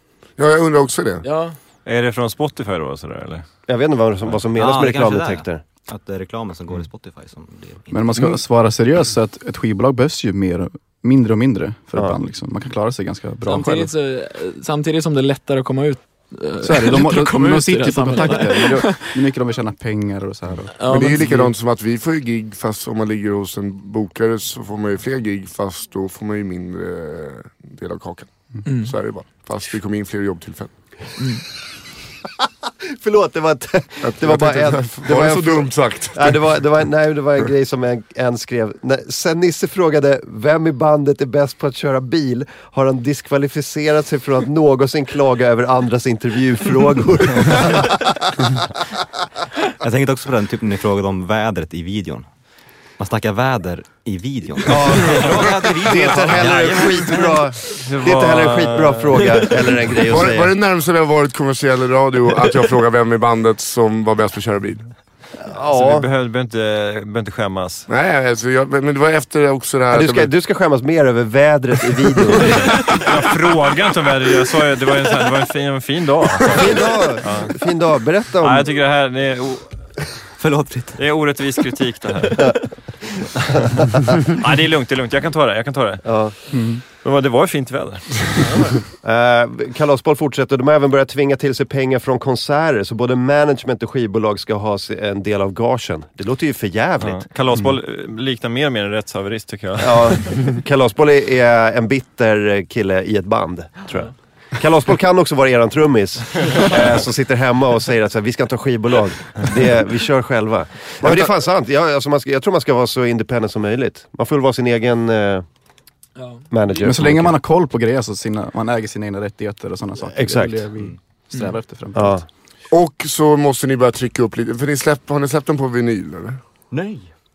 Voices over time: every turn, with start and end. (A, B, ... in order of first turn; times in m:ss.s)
0:00.4-0:01.2 A
0:01.2-0:01.6 B
0:01.8-0:03.4 C
0:03.7-0:05.6 D
0:04.5-0:08.3 E
0:07.9-0:13.9 F
0:11.9-0:12.2 D
0:13.4-0:19.2 B
0:16.6-0:21.5 F
0:20.8-0:21.3 B
0:20.9-0:30.7 A
0:28.6-0:28.9 B
0:31.2-0:31.4 B
0:33.0-0:48.1 D
0:34.0-0:36.7 A
0:49.8-0:52.3 E
0:53.0-0:57.4 E
0:54.7-1:00.5 D
0:57.7-0:59.2 C
1:00.1-1:04.9 A
1:05.4-1:06.1 D
1:05.7-1:07.9 C
1:07.9-1:10.3 A
1:09.9-1:12.7 D
1:12.8-1:17.6 C
1:16.5-1:18.8 D
1:18.4-1:19.8 C
1:20.4-1:21.3 E
1:21.0-1:22.4 C
1:22.3-1:22.6 E
1:24.3-1:28.3 C
1:26.0-1:26.4 D
1:26.5-1:26.8 F
1:28.4-1:28.8 B
1:29.0-1:37.3 D
1:37.0-1:40.3 C
1:39.8-1:55.5 D
1:51.0-1:51.3 A
1:56.2-1:56.5 B
1:56.5-1:57.4 D
1:56.8-2:02.2 F
2:00.0-2:00.6 D
2:01.3-2:01.6 B
2:01.9-2:02.2 D
2:02.7-2:06.4 A
2:06.7-2:07.1 E